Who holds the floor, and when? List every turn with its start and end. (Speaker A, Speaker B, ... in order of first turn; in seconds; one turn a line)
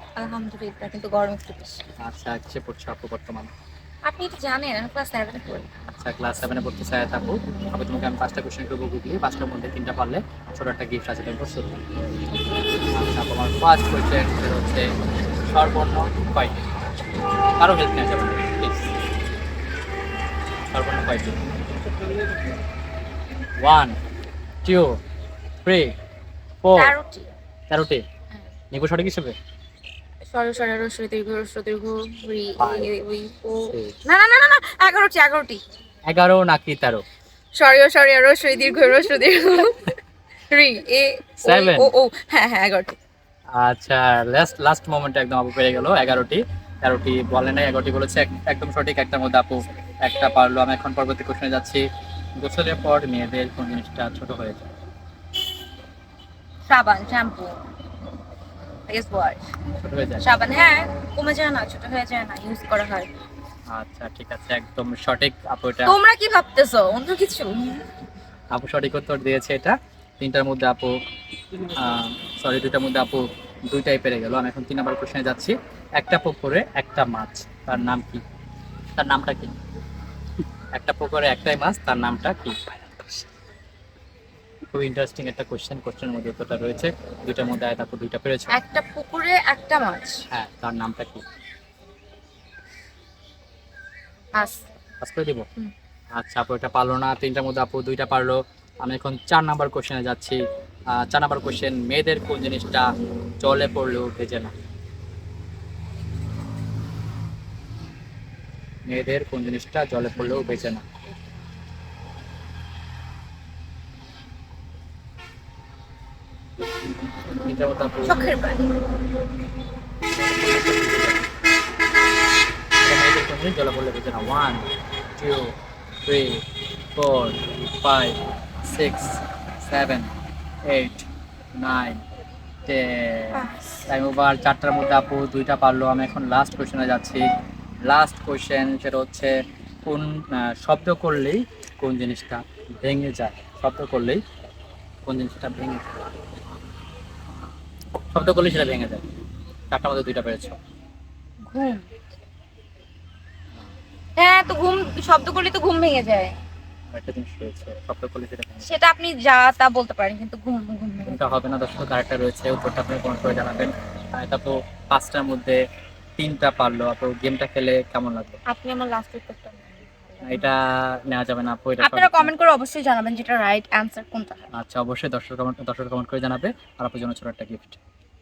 Speaker A: 0.2-1.8
Speaker B: 2.0-3.5
Speaker A: 4.0-5.7
Speaker B: 5.9-11.8
Speaker A: 12.3-12.9
Speaker B: 12.9-14.9
Speaker B: 15.5-16.6
Speaker B: 17.6-18.9
Speaker B: 20.7-21.4
Speaker B: 23.6-24.0
Speaker B: 24.6-25.0
Speaker B: 25.6-25.9
Speaker B: 26.6-26.9
Speaker A: 26.8-27.3
Speaker B: 27.7-28.1
Speaker B: 28.7-29.4
Speaker A: 30.3-35.6
Speaker B: 32.6-32.9
Speaker B: 33.7-34.0
Speaker B: 36.1-37.0
Speaker A: 37.5-39.9
Speaker A: 40.5-43.0
Speaker B: 41.5-41.9
Speaker B: 43.6-51.9
Speaker B: 52.4-54.7
Speaker A: 56.7-57.6
Speaker A: 58.9-59.4
Speaker B: 59.8-60.2
Speaker A: 60.2-63.1
Speaker B: 63.7-66.0
Speaker A: 65.8-67.9
Speaker B: 68.5-70.9
Speaker B: 71.7-78.2
Speaker B: 79.0-79.6
Speaker B: 80.7-83.2
Speaker B: 84.7-88.6
Speaker A: 88.5-90.2
Speaker B: 90.3-91.2
Speaker A: 94.4-94.6
Speaker B: 95.0-95.5
Speaker B: 96.2-104.5
Speaker B: 108.9-110.8
Speaker B: 117.3-118.2
Speaker A: 118.0-118.8
Speaker B: 120.1-121.3
Speaker B: 122.8-125.5
Speaker B: 126.0-126.4
Speaker B: 127.0-130.1
Speaker B: 130.7-132.0
Speaker B: 132.7-137.3
Speaker A: 133.3-133.8
Speaker B: 137.8-144.2
Speaker B: 145.1-146.0
Speaker B: 148.1-149.1
Speaker B: 149.7-150.6
Speaker A: 151.5-151.9
Speaker A: 154.2-156.4
Speaker B: 156.9-158.8
Speaker A: 158.7-161.2
Speaker B: 161.1-165.6
Speaker B: 166.2-168.4
Speaker A: 168.5-170.5
Speaker B: 170.2-172.3
Speaker A: 171.8-174.5
Speaker B: 174.5-177.8